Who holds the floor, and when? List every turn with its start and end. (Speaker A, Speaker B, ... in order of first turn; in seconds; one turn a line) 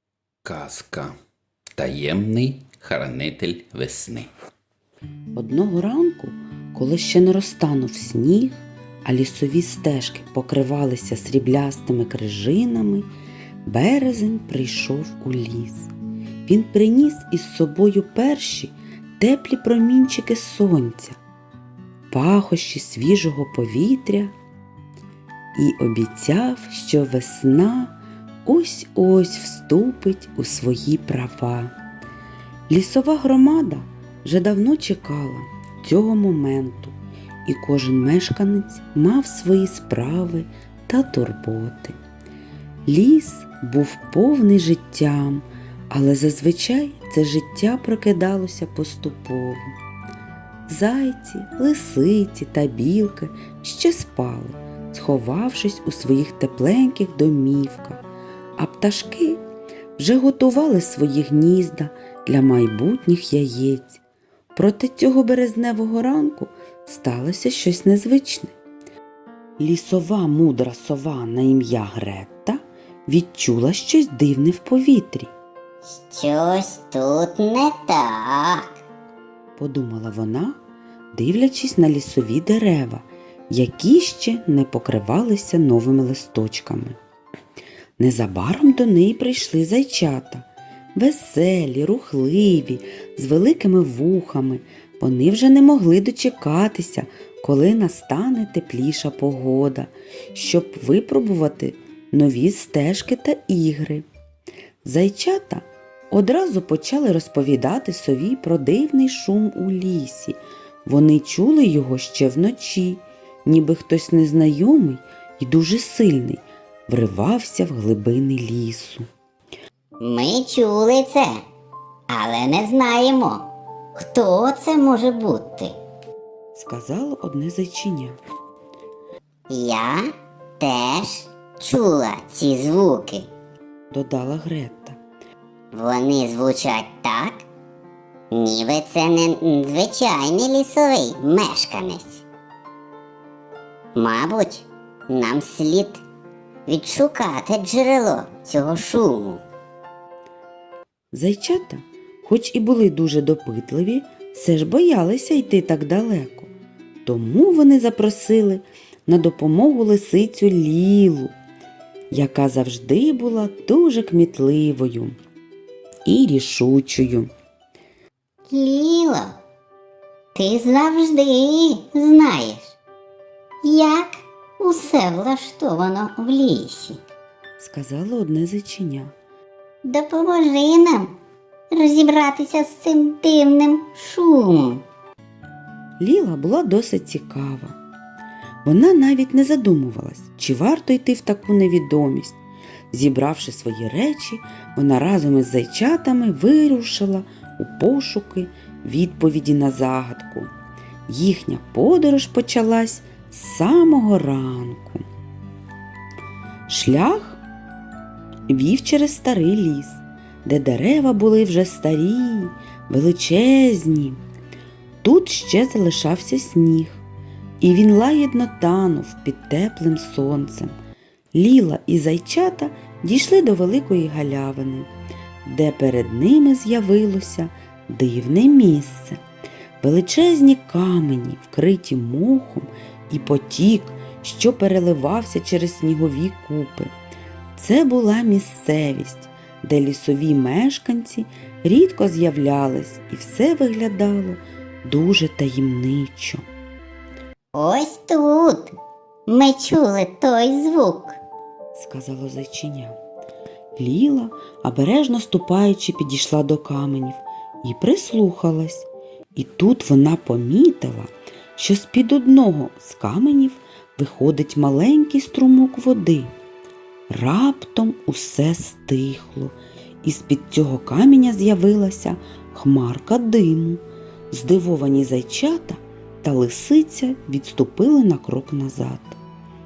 Speaker A: 0.5-1.2
Speaker A: 1.8-4.3
Speaker B: 5.3-13.1
Speaker B: 13.7-15.9
Speaker B: 16.5-21.2
Speaker B: 22.1-24.3
Speaker B: 25.6-31.7
Speaker B: 32.7-42.0
Speaker B: 42.9-49.6
Speaker B: 50.7-58.0
Speaker B: 58.6-59.4
Speaker B: 60.0-64.0
Speaker B: 64.5-68.5
Speaker B: 69.6-75.3
Speaker C: 75.9-78.8
Speaker B: 79.6-80.6
Speaker B: 81.1-87.0
Speaker B: 88.0-104.1
Speaker B: 104.8-119.1
Speaker C: 120.0-121.3
Speaker C: 122.1-125.8
Speaker B: 126.5-128.2
Speaker C: 129.5-130.1
Speaker C: 130.6-133.3
Speaker B: 133.9-135.0
Speaker C: 135.7-137.4
Speaker C: 138.3-142.2
Speaker C: 143.9-146.0
Speaker C: 146.7-149.4
Speaker B: 151.1-156.5
Speaker B: 157.1-161.3
Speaker B: 162.1-165.2
Speaker B: 166.1-167.3
Speaker C: 168.5-169.3
Speaker C: 170.3-172.7
Speaker C: 173.6-177.0
Speaker B: 177.6-179.1
Speaker C: 179.8-181.2
Speaker C: 181.7-184.8
Speaker B: 186.0-187.8
Speaker B: 188.6-192.4
Speaker B: 192.9-200.5
Speaker B: 201.1-205.0
Speaker B: 206.7-207.4
Speaker B: 208.5-214.2
Speaker B: 215.0-217.0
Speaker B: 217.6-220.8
Speaker B: 221.3-224.9
Speaker B: 225.4-229.2
Speaker B: 229.8-236.9
Speaker B: 237.6-246.4
Speaker C: 247.5-248.7
Speaker C: 249.3-251.2
Speaker B: 251.7-253.0
Speaker B: 253.8-266.3
Speaker B: 267.1-279.2